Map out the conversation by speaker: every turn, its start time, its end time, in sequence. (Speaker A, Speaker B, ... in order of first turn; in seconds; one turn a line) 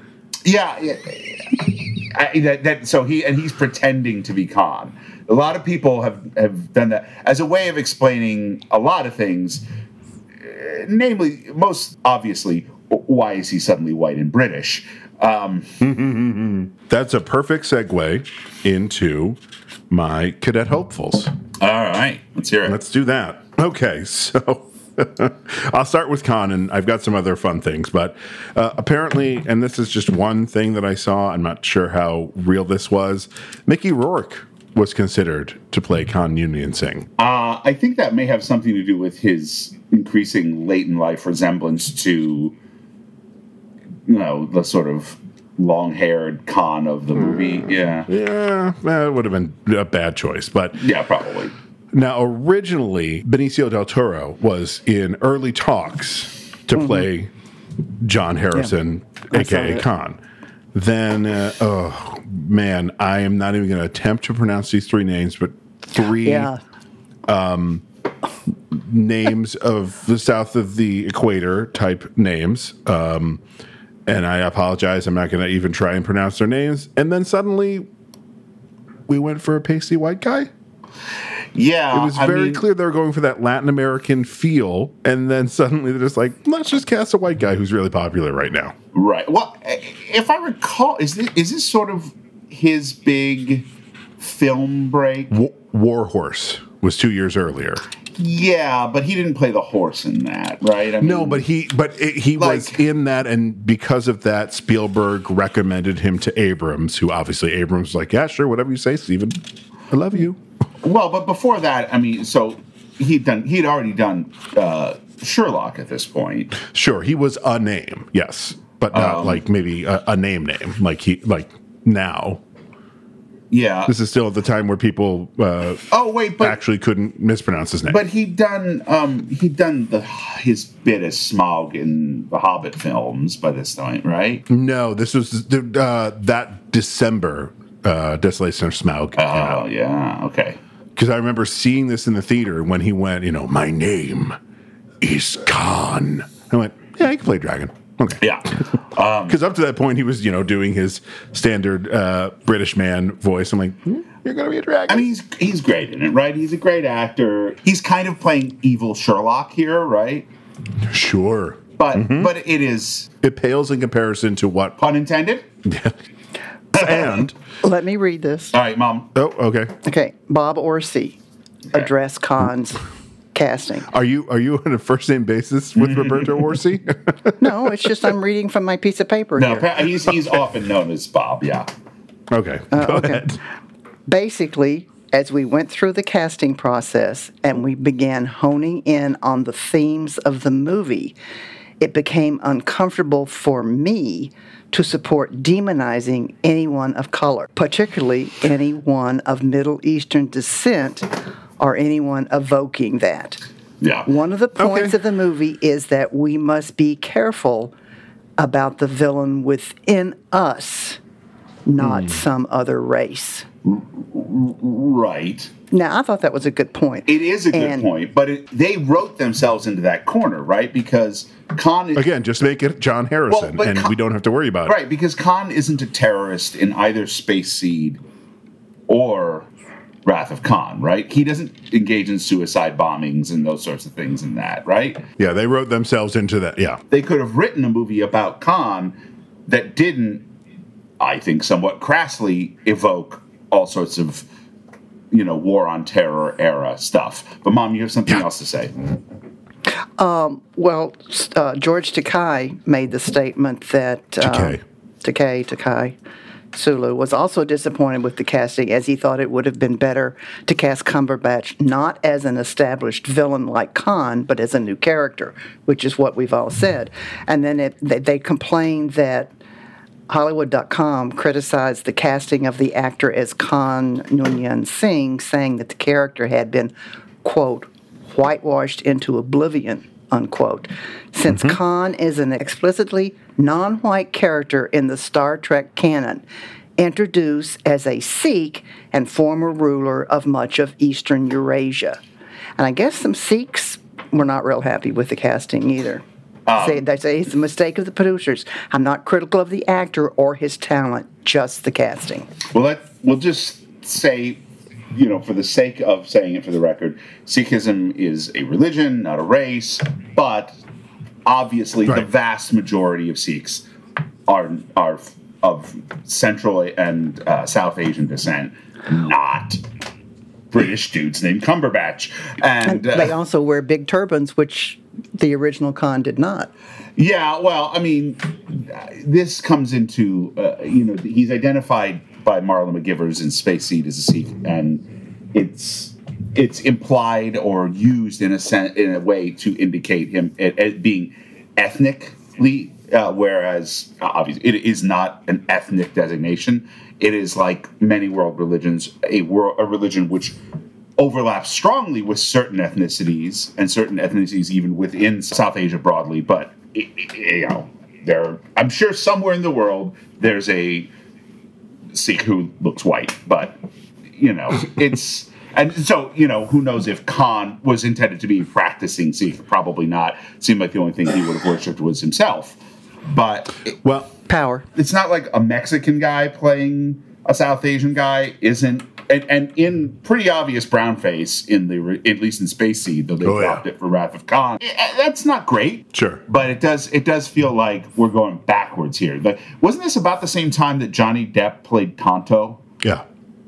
Speaker A: 0.4-9.7
Speaker A: 10.4-15.8
Speaker B: 15.8-19.4
Speaker B: 19.9-21.3
Speaker A: 21.6-22.8
Speaker B: 22.6-37.1
Speaker A: 37.2-42.5
Speaker A: 44.1-48.1
Speaker B: 47.2-50.8
Speaker A: 50.8-51.5
Speaker B: 51.9-57.3
Speaker C: 56.8-57.0
Speaker B: 58.0-60.2
Speaker C: 59.3-59.8
Speaker B: 60.7-66.5
Speaker C: 66.2-66.6
Speaker B: 67.3-67.8
Speaker B: 68.5-73.4
Speaker B: 74.1-77.9
Speaker B: 79.1-80.5
Speaker A: 81.5-82.6
Speaker B: 81.9-88.7
Speaker A: 88.9-93.7
Speaker A: 94.2-95.3
Speaker B: 95.3-97.8
Speaker A: 98.2-101.4
Speaker B: 101.0-110.4
Speaker A: 102.4-102.8
Speaker A: 110.8-116.5
Speaker B: 116.6-122.4
Speaker A: 118.9-119.4
Speaker A: 123.5-123.9
Speaker B: 123.9-125.8
Speaker A: 125.9-126.6
Speaker B: 126.4-128.0
Speaker A: 127.9-134.4
Speaker B: 134.5-139.7
Speaker A: 139.2-140.6
Speaker B: 141.0-144.4
Speaker B: 145.0-148.2
Speaker A: 148.2-149.4
Speaker B: 149.3-155.1
Speaker A: 154.9-160.3
Speaker B: 160.8-162.3
Speaker A: 161.8-163.1
Speaker B: 163.2-164.8
Speaker A: 164.8-165.5
Speaker B: 165.7-165.9
Speaker B: 166.7-167.3
Speaker A: 166.7-167.2
Speaker C: 167.6-168.5
Speaker A: 168.5-169.1
Speaker B: 169.2-169.7
Speaker C: 169.8-171.2
Speaker C: 171.7-172.8
Speaker C: 173.3-173.9
Speaker B: 173.9-177.9
Speaker A: 175.8-176.5
Speaker C: 177.4-179.7
Speaker A: 179.4-181.7
Speaker B: 182.3-183.4
Speaker C: 182.7-183.3
Speaker C: 184.1-191.1
Speaker C: 191.8-201.1
Speaker C: 201.6-203.4
Speaker A: 203.8-204.1
Speaker C: 204.1-207.7
Speaker B: 204.6-204.9
Speaker C: 208.4-211.0
Speaker C: 211.7-213.5
Speaker B: 211.8-212.2
Speaker A: 213.7-215.5
Speaker C: 215.7-217.9
Speaker A: 217.1-222.1
Speaker B: 221.9-224.8
Speaker A: 223.3-223.9
Speaker A: 224.7-228.0
Speaker A: 228.9-229.5
Speaker A: 230.1-235.0
Speaker B: 235.2-236.8
Speaker A: 236.9-240.3
Speaker A: 241.0-244.2
Speaker A: 245.1-248.7
Speaker C: 249.7-256.0
Speaker B: 254.2-254.6
Speaker C: 256.5-269.3
Speaker C: 270.1-276.7
Speaker C: 277.2-286.2
Speaker B: 281.3-281.6
Speaker C: 286.8-292.0
Speaker C: 292.6-296.0
Speaker A: 296.5-296.8
Speaker C: 296.6-302.3
Speaker A: 302.5-304.4
Speaker A: 304.9-310.6
Speaker A: 311.3-313.7
Speaker A: 314.3-319.6
Speaker A: 320.5-323.1
Speaker C: 322.6-326.5
Speaker A: 327.0-350.4
Speaker A: 351.0-360.9
Speaker A: 361.9-363.6
Speaker A: 364.2-373.8
Speaker B: 373.8-374.1
Speaker C: 374.3-374.7
Speaker A: 374.8-392.6
Speaker B: 383.2-383.6
Speaker B: 385.9-386.2